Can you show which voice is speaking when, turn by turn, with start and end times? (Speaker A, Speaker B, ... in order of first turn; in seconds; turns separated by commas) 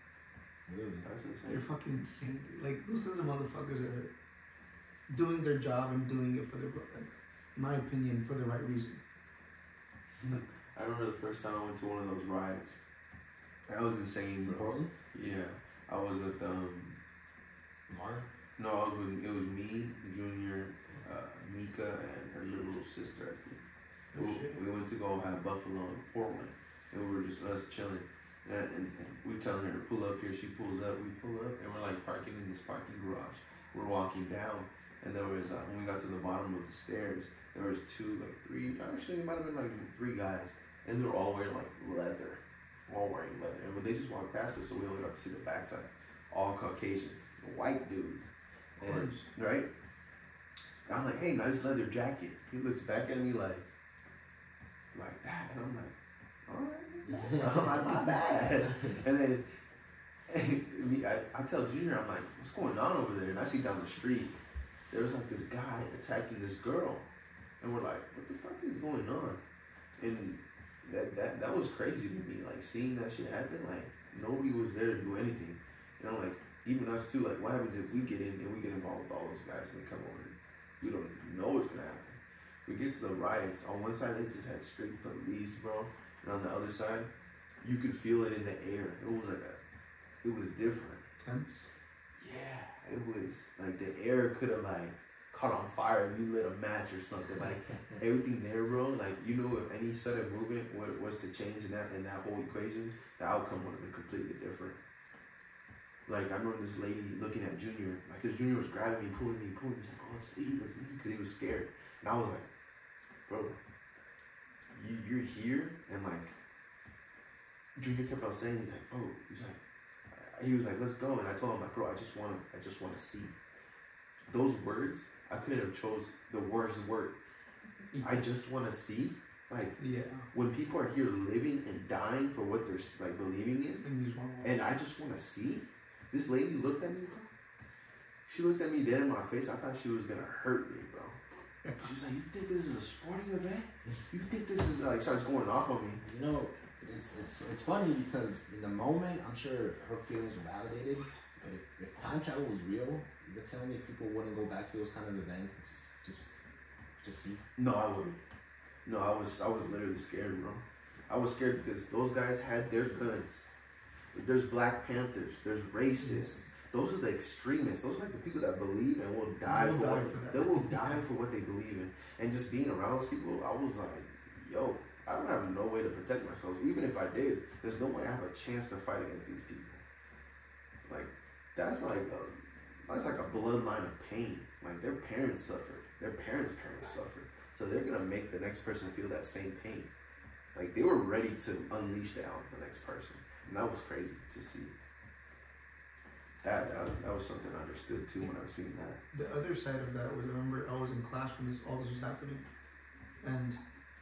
Speaker A: 0.7-1.1, Speaker B: 1.0-1.6, Speaker C: 1.4-4.1, Speaker C: 5.1-9.0, Speaker B: 10.2-12.8, Speaker B: 13.7-17.0, Speaker A: 14.5-14.9, Speaker A: 17.9-18.3, Speaker B: 18.6-23.6, Speaker C: 24.1-24.6, Speaker B: 24.1-49.7, Speaker C: 48.8-49.3, Speaker B: 50.9-53.6, Speaker B: 54.9-55.9, Speaker B: 56.5-59.5, Speaker A: 57.0-58.1, Speaker B: 60.3-64.4, Speaker B: 64.9-67.0, Speaker B: 67.6-69.4, Speaker B: 70.0-87.1, Speaker B: 87.6-89.6, Speaker B: 90.2-91.0, Speaker C: 91.2-91.7, Speaker B: 92.2-104.8, Speaker B: 106.1-112.5, Speaker B: 113.3-113.6, Speaker B: 114.7-116.3, Speaker B: 117.7-119.6, Speaker B: 120.1-123.3, Speaker B: 124.3-127.3, Speaker C: 127.9-128.2, Speaker B: 128.0-129.8, Speaker C: 129.8-130.3, Speaker B: 130.3-133.8, Speaker C: 133.8-134.6, Speaker B: 134.4-137.3, Speaker B: 138.3-141.2, Speaker B: 141.8-146.0, Speaker A: 146.0-156.4, Speaker A: 157.0-157.4, Speaker B: 157.6-158.2, Speaker B: 158.8-163.5, Speaker B: 164.1-179.8, Speaker C: 166.0-166.4, Speaker C: 169.4-171.0, Speaker B: 180.9-189.9, Speaker B: 190.5-194.7, Speaker B: 196.4-199.0, Speaker C: 199.1-202.4, Speaker C: 203.2-203.6